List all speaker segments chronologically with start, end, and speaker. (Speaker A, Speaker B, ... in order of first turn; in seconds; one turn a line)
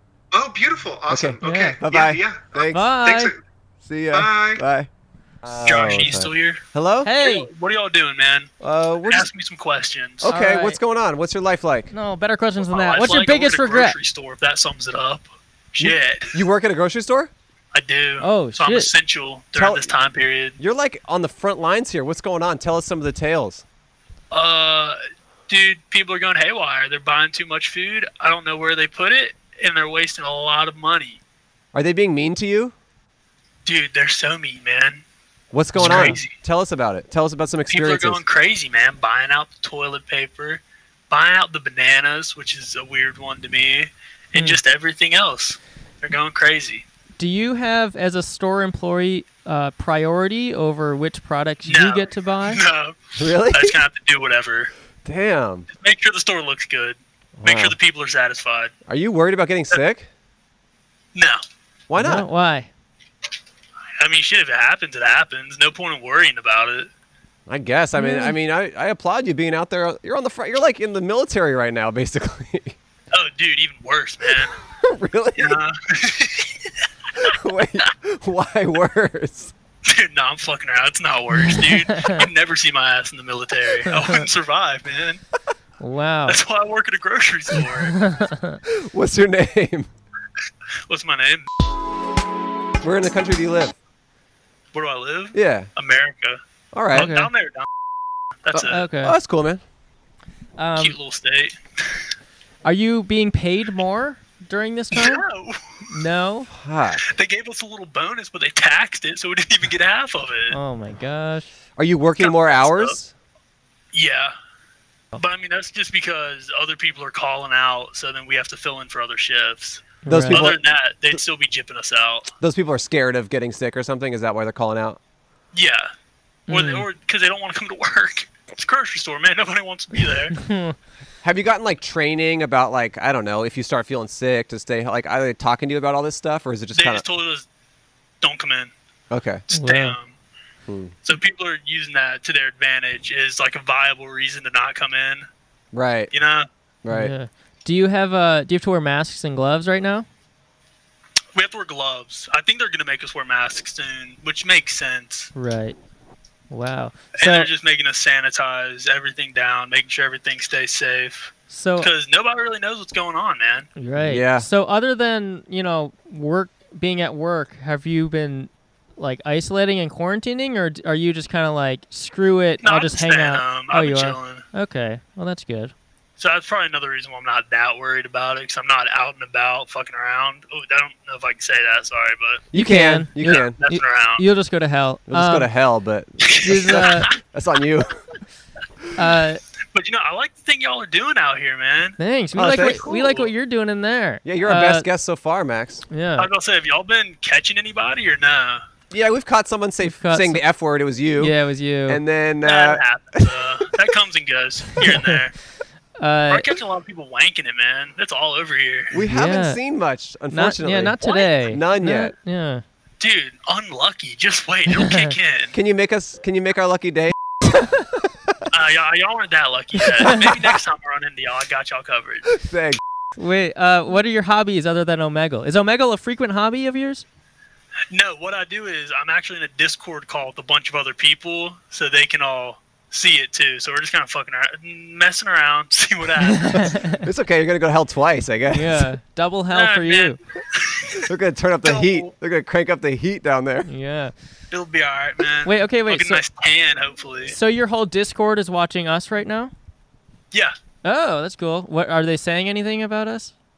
Speaker A: 0.3-3.4
Speaker B: 1.1-2.9
Speaker C: 1.4-1.8
Speaker C: 2.7-3.3
Speaker B: 3.8-4.9
Speaker A: 4.1-4.6
Speaker B: 5.4-7.1
Speaker D: 5.6-6.6
Speaker C: 7.0-7.5
Speaker D: 7.2-8.5
Speaker B: 8.6-9.3
Speaker D: 9.1-10.3
Speaker B: 10.2-11.9
Speaker C: 10.2-10.8
Speaker C: 11.9-14.0
Speaker D: 12.6-16.4
Speaker B: 15.8-17.3
Speaker D: 17.7-20.6
Speaker C: 18.2-18.9
Speaker B: 19.5-19.9
Speaker B: 20.6-23.6
Speaker D: 24.3-25.0
Speaker D: 25.5-31.2
Speaker B: 31.7-32.7
Speaker D: 33.6-35.0
Speaker B: 35.5-38.2
Speaker D: 35.7-36.3
Speaker C: 35.8-36.2
Speaker D: 37.7-46.8
Speaker C: 44.3-44.6
Speaker C: 47.2-52.6
Speaker D: 51.6-54.7
Speaker B: 53.1-53.8
Speaker B: 55.0-55.7
Speaker D: 55.7-58.7
Speaker B: 57.4-57.8
Speaker B: 58.9-60.1
Speaker D: 61.1-61.4
Speaker B: 61.9-62.3
Speaker C: 62.0-62.7
Speaker D: 64.0-66.9
Speaker B: 67.5-72.8
Speaker C: 68.0-68.3
Speaker D: 73.1-74.5
Speaker B: 74.8-75.6
Speaker D: 75.3-76.5
Speaker B: 77.2-79.5
Speaker D: 79.8-85.2
Speaker C: 81.3-82.2
Speaker C: 83.8-84.2
Speaker C: 85.8-86.4
Speaker D: 86.3-88.0
Speaker C: 87.8-88.6
Speaker B: 88.7-89.9
Speaker D: 90.9-91.5
Speaker B: 92.8-93.8
Speaker D: 94.7-96.4
Speaker B: 95.3-95.7
Speaker B: 96.7-97.1
Speaker D: 96.9-97.7
Speaker C: 96.9-97.3
Speaker D: 98.4-98.9
Speaker B: 98.5-99.6
Speaker C: 98.6-99.2
Speaker C: 100.6-101.0
Speaker D: 100.8-101.6
Speaker C: 102.6-105.2
Speaker D: 104.9-105.9
Speaker C: 105.9-106.5
Speaker B: 106.5-107.0
Speaker D: 107.0-110.6
Speaker C: 110.5-111.5
Speaker B: 111.8-113.1
Speaker D: 112.2-113.0
Speaker D: 113.9-114.3
Speaker D: 115.2-122.3
Speaker C: 120.0-120.5
Speaker B: 120.1-120.6
Speaker B: 122.4-125.0
Speaker D: 125.5-125.9
Speaker C: 126.5-126.8
Speaker D: 126.5-130.4
Speaker C: 130.3-130.8
Speaker B: 131.2-137.0
Speaker D: 136.7-137.4
Speaker D: 138.2-138.7
Speaker B: 139.1-139.4
Speaker D: 139.5-140.2
Speaker C: 139.5-140.0
Speaker B: 140.7-140.9
Speaker D: 141.0-145.3
Speaker B: 145.7-146.1
Speaker D: 146.1-146.5
Speaker B: 146.8-147.1
Speaker C: 146.9-150.1
Speaker D: 151.3-155.3
Speaker C: 155.3-155.8
Speaker C: 156.5-157.5
Speaker D: 157.2-163.7
Speaker C: 161.5-161.9
Speaker C: 163.8-175.7
Speaker B: 163.9-164.5
Speaker D: 172.6-174.4
Speaker D: 176.2-182.4
Speaker B: 182.5-183.6
Speaker C: 182.5-185.5
Speaker D: 183.2-184.2
Speaker B: 185.1-188.0
Speaker D: 186.2-187.2
Speaker C: 186.4-187.1
Speaker C: 188.9-189.4
Speaker D: 189.7-193.3
Speaker C: 192.0-194.9
Speaker B: 192.3-192.9
Speaker B: 194.2-195.8
Speaker C: 195.9-196.3
Speaker D: 196.2-198.6
Speaker B: 198.9-201.3
Speaker C: 199.8-200.4
Speaker C: 201.2-202.0
Speaker B: 201.9-203.5
Speaker D: 202.4-205.3
Speaker C: 206.0-206.5
Speaker D: 206.3-209.0
Speaker B: 208.9-212.1
Speaker C: 209.1-209.6
Speaker C: 210.3-212.6
Speaker D: 211.0-211.3
Speaker D: 213.0-215.5
Speaker C: 214.7-215.1
Speaker B: 215.5-217.1
Speaker D: 218.5-222.3
Speaker B: 222.3-222.8
Speaker C: 223.2-227.0
Speaker D: 227.9-236.8
Speaker C: 236.2-237.1
Speaker B: 237.0-238.9
Speaker C: 238.5-240.2
Speaker D: 239.5-241.1
Speaker B: 241.0-243.7
Speaker D: 241.6-242.1
Speaker C: 243.7-244.1
Speaker D: 244.5-247.3
Speaker C: 245.4-246.2
Speaker C: 247.3-249.5
Speaker C: 250.8-253.3